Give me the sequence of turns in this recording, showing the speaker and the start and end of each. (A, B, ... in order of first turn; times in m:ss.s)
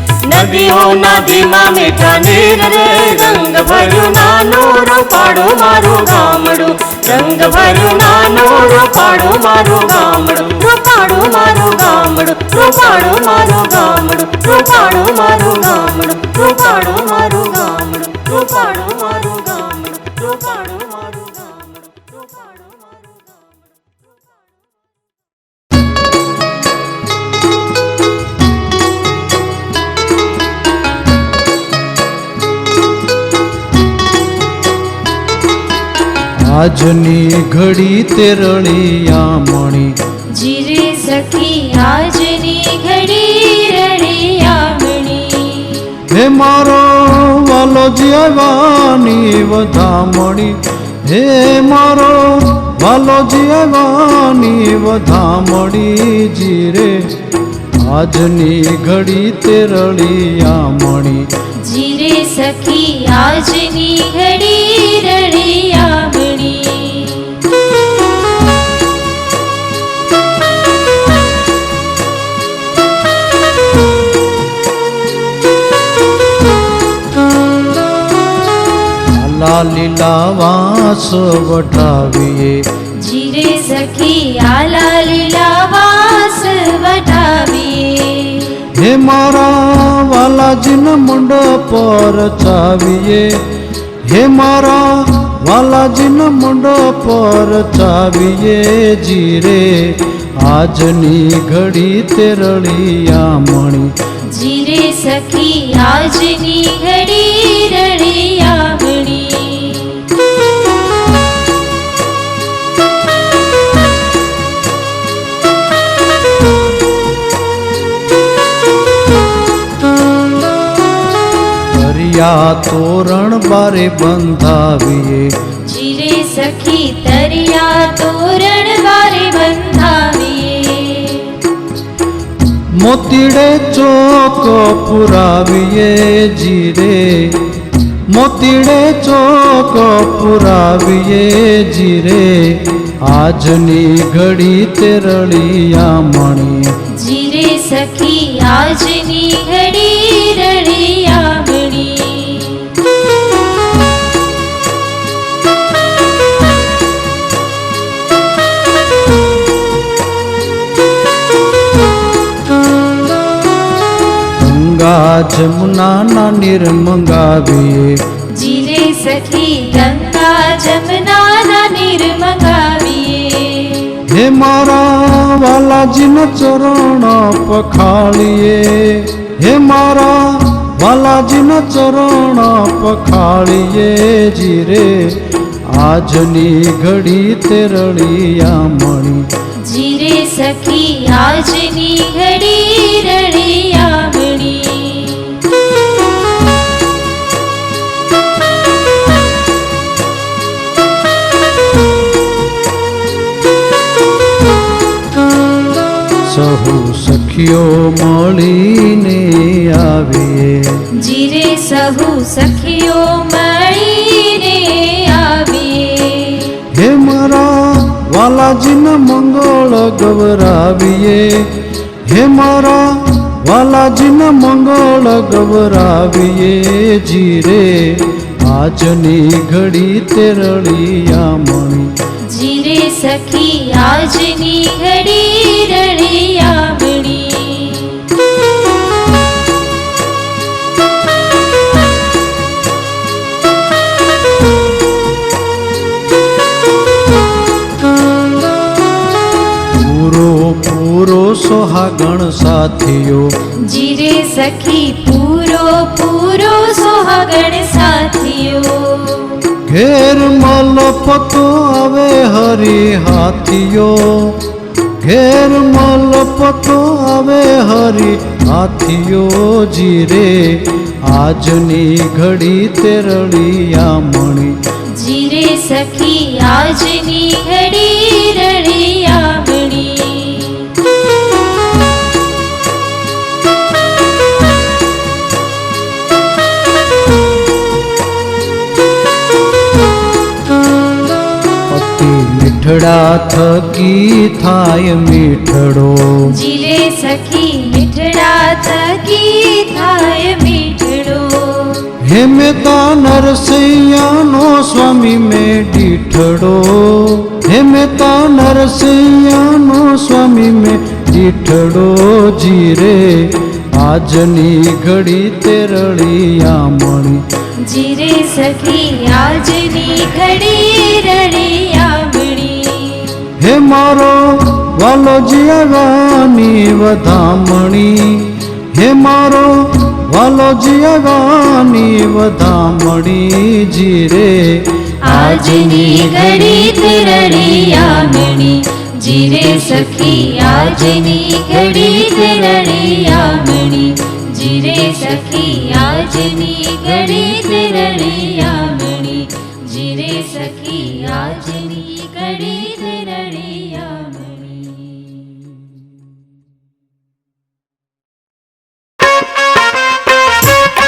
0:00.2-0:21.7 A
0:36.5-0:39.9 B
0:40.3-0:46.0 C
0:46.1-0:57.1 B
0:57.8-1:01.3 B
1:01.6-1:07.4 C
1:19.1-1:22.6 B
1:23.0-1:28.6 C
1:28.8-1:33.3 B
1:34.0-1:43.9 B
1:44.3-1:50.1 C
2:01.7-2:05.3 B
2:05.6-2:11.4 C
2:12.8-2:17.4 B
2:18.1-2:26.7 B
2:26.9-2:32.8 C
2:44.4-2:48.0 B
2:48.3-2:54.0 C
2:54.1-3:05.2 B
3:05.7-3:09.3 B
3:09.6-3:15.4 C
3:26.3-3:30.8 B
3:31.0-3:36.6 C
3:36.7-3:41.5 B
3:42.1-3:51.9 B
3:52.3-3:58.1 C
4:09.7-4:13.3 B
4:13.6-4:19.4 C
4:19.7-4:24.4 B
4:25.0-4:34.6 B
4:34.9-4:40.8 C
4:51.7-4:56.4 B
4:56.3-5:01.9 C
5:02.0-5:17.2 B
5:17.6-5:23.3 C
5:23.4-5:34.7 B
5:35.0-5:55.6 C